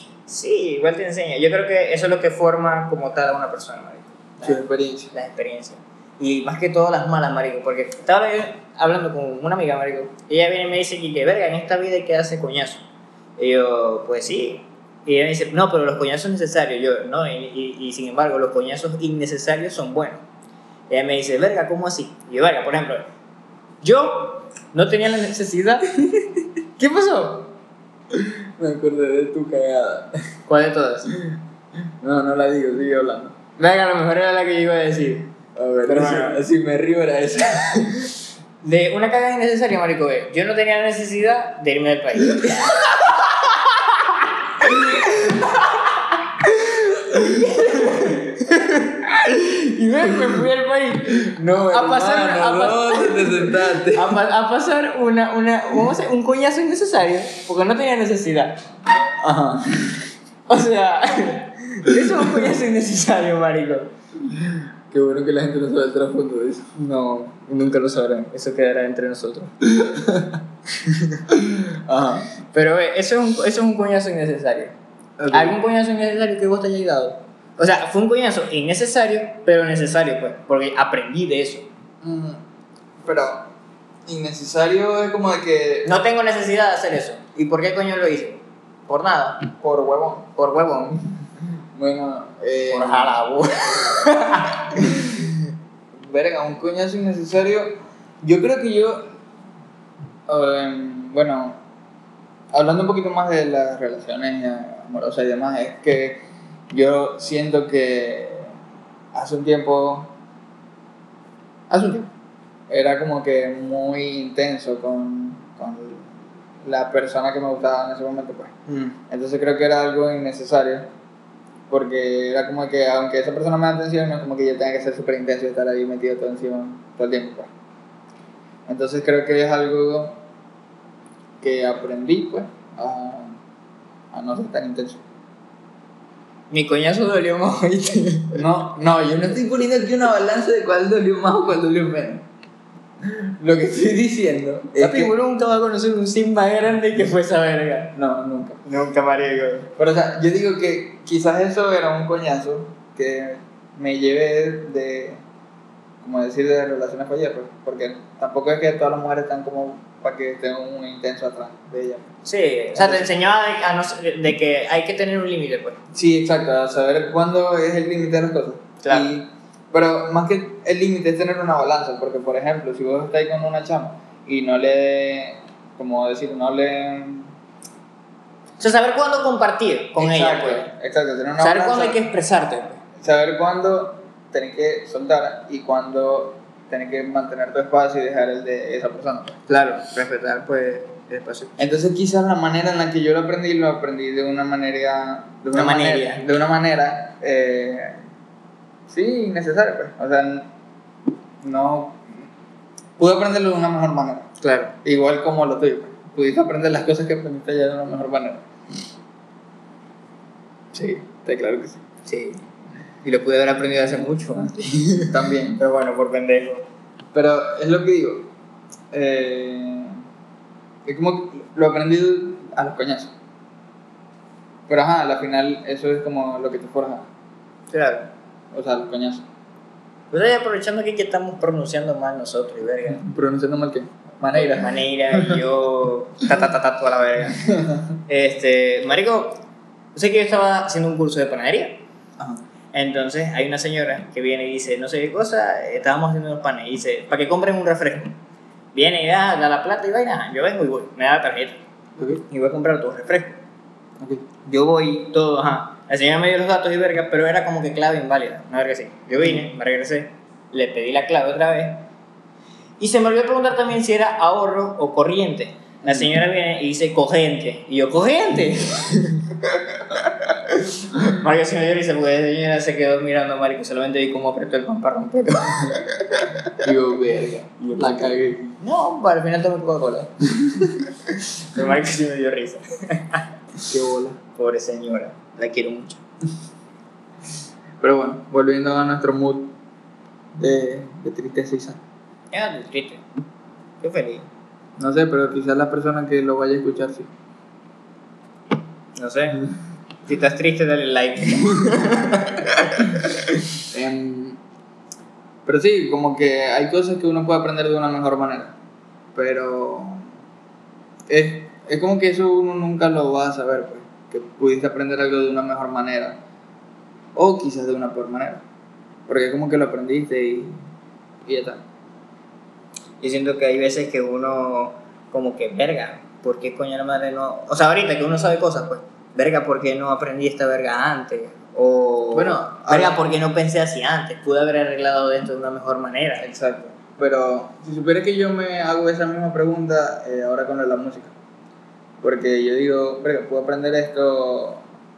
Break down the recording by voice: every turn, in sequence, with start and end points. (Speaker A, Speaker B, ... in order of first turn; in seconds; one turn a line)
Speaker A: 0.3-4.6
Speaker B: 4.4-5.1
Speaker A: 5.1-12.8
Speaker A: 13.4-20.2
Speaker A: 20.9-23.0
Speaker A: 23.8-25.9
Speaker A: 26.8-27.5
Speaker B: 28.1-30.1
Speaker A: 30.5-31.1
Speaker B: 32.0-33.4
Speaker A: 33.6-36.4
Speaker B: 35.5-38.1
Speaker A: 38.6-58.6
Speaker B: 44.6-45.2
Speaker B: 47.1-48.0
Speaker B: 51.2-54.2
Speaker B: 59.2-60.0
Speaker A: 60.5-63.9
Speaker B: 62.1-62.5
Speaker B: 64.3-66.8
Speaker A: 66.8-69.5
Speaker B: 69.7-70.4
Speaker A: 70.8-71.2
Speaker B: 71.3-72.3
Speaker A: 72.5-74.7
Speaker B: 75.2-75.6
Speaker A: 75.3-81.7
Speaker B: 82.0-82.4
Speaker B: 83.0-83.5
Speaker B: 84.1-85.9
Speaker A: 85.8-89.5
Speaker B: 89.6-90.3
Speaker A: 90.3-91.1
Speaker B: 91.7-93.2
Speaker A: 92.7-95.2
Speaker B: 93.7-94.0
Speaker B: 94.7-95.2
Speaker B: 96.1-99.1
Speaker B: 100.3-101.6
Speaker B: 102.5-108.6
Speaker B: 109.1-110.1
Speaker B: 111.7-112.1
Speaker B: 112.7-116.1
Speaker B: 116.6-120.9
Speaker A: 118.7-118.9
Speaker B: 121.7-127.5
Speaker B: 128.7-130.2
Speaker B: 131.4-133.4
Speaker B: 134.1-135.0
Speaker A: 136.5-138.4
Speaker B: 138.3-142.2
Speaker B: 143.0-145.1
Speaker A: 144.7-147.9
Speaker B: 147.9-148.6
Speaker A: 148.6-149.7
Speaker B: 149.8-155.2
Speaker B: 156.0-162.1
Speaker A: 162.2-165.8
Speaker B: 162.7-163.1
Speaker B: 165.9-177.3
Speaker A: 168.8-169.1
Speaker A: 178.6-180.7
Speaker B: 180.0-182.0
Speaker A: 181.4-182.8
Speaker B: 183.0-189.4
Speaker A: 189.5-191.6
Speaker B: 191.6-198.0
Speaker A: 195.5-196.2
Speaker B: 198.9-200.5
Speaker B: 201.4-202.1
Speaker B: 203.0-204.3
Speaker A: 204.4-204.7
Speaker B: 204.8-208.4
Speaker B: 210.7-211.8
Speaker A: 212.1-212.4
Speaker A: 213.0-216.7
Speaker B: 215.0-215.6
Speaker B: 217.1-218.3
Speaker B: 218.9-220.0
Speaker B: 220.8-223.1
Speaker B: 224.7-227.1
Speaker A: 227.7-228.1
Speaker B: 228.5-229.2
Speaker A: 230.1-233.0
Speaker B: 232.9-235.4
Speaker A: 234.4-237.4
Speaker B: 237.4-237.9
Speaker A: 238.1-239.4
Speaker A: 239.9-241.8
Speaker A: 242.7-248.1
Speaker A: 248.7-251.6
Speaker B: 252.0-252.2
Speaker A: 252.3-253.4
Speaker B: 254.0-254.2
Speaker A: 254.4-261.9
Speaker B: 259.2-259.5
Speaker A: 262.8-269.2
Speaker A: 270.4-275.9
Speaker B: 276.6-278.4
Speaker A: 277.6-280.1
Speaker B: 280.3-280.8
Speaker A: 281.2-283.3
Speaker B: 283.6-284.2
Speaker A: 284.3-286.0
Speaker B: 287.8-289.5
Speaker B: 290.4-291.8
Speaker A: 292.3-293.0
Speaker A: 293.8-294.2
Speaker B: 294.8-297.1
Speaker A: 298.9-299.5
Speaker A: 300.0-303.1
Speaker B: 303.7-304.4
Speaker B: 305.4-308.6
Speaker B: 309.1-310.1
Speaker B: 311.1-316.2
Speaker B: 317.1-318.4
Speaker B: 319.1-320.6
Speaker B: 321.2-321.6
Speaker A: 323.0-336.3
Speaker B: 332.1-333.0
Speaker B: 336.2-341.1
Speaker B: 342.0-344.6